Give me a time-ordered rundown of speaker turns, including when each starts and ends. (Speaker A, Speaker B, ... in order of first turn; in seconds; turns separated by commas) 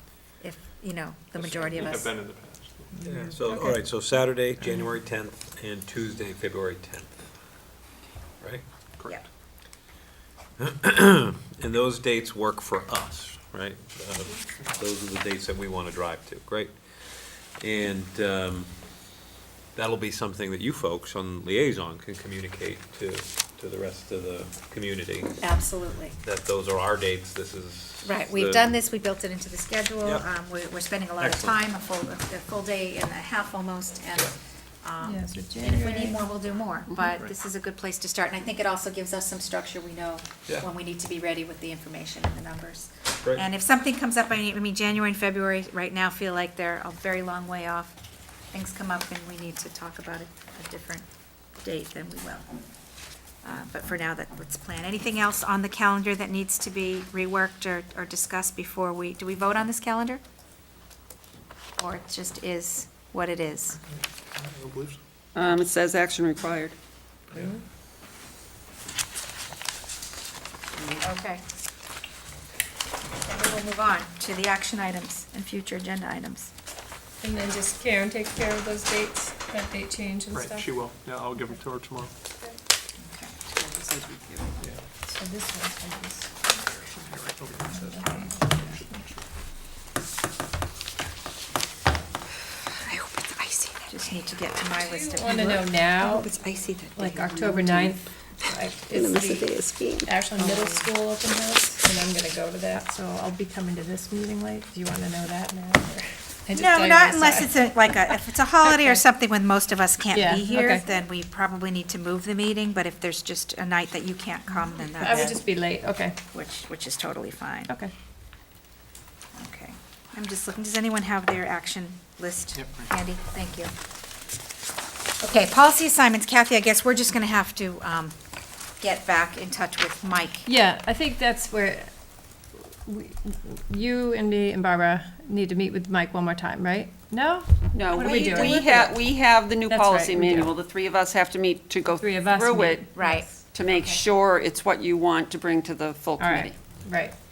Speaker A: 0.4-2.1, Speaker B: 1.4-3.0, Speaker C: 3.0-7.3, Speaker D: 3.4-3.8, Speaker B: 9.0-9.2, Speaker C: 10.6-18.7, Speaker C: 19.8-25.4, Speaker A: 25.4-26.1, Speaker C: 26.2-28.8, Speaker A: 28.1-47.9, Speaker C: 31.2-31.6, Speaker D: 35.0-36.2, Speaker A: 48.5-51.1, Speaker A: 51.6-52.5, Speaker A: 53.4-60.2, Speaker A: 61.8-63.8, Speaker B: 63.9-65.0, Speaker E: 65.3-66.8, Speaker B: 67.3-67.6, Speaker A: 71.0-71.4, Speaker A: 73.3-76.5, Speaker D: 77.2-80.7, Speaker B: 80.3-82.1, Speaker A: 83.0-83.4, Speaker E: 83.5-84.5, Speaker B: 84.6-84.8, Speaker D: 85.0-86.3, Speaker B: 86.5-89.3, Speaker D: 87.7-88.8, Speaker A: 93.2-95.7, Speaker D: 94.8-96.3, Speaker D: 97.0-107.6, Speaker E: 97.5-97.9, Speaker E: 98.9-100.8, Speaker A: 106.5-115.5, Speaker D: 108.6-109.0, Speaker D: 110.1-110.9, Speaker D: 114.9-116.2, Speaker A: 116.3-117.7, Speaker A: 119.4-123.7, Speaker B: 122.5-122.9, Speaker A: 125.2-128.2, Speaker A: 128.8-130.5, Speaker D: 130.4-131.9, Speaker D: 132.6-139.0, Speaker E: 137.7-142.9, Speaker D: 139.7-140.6, Speaker D: 142.0-143.3, Speaker A: 142.9-144.0, Speaker E: 143.5-146.6, Speaker D: 146.2-147.1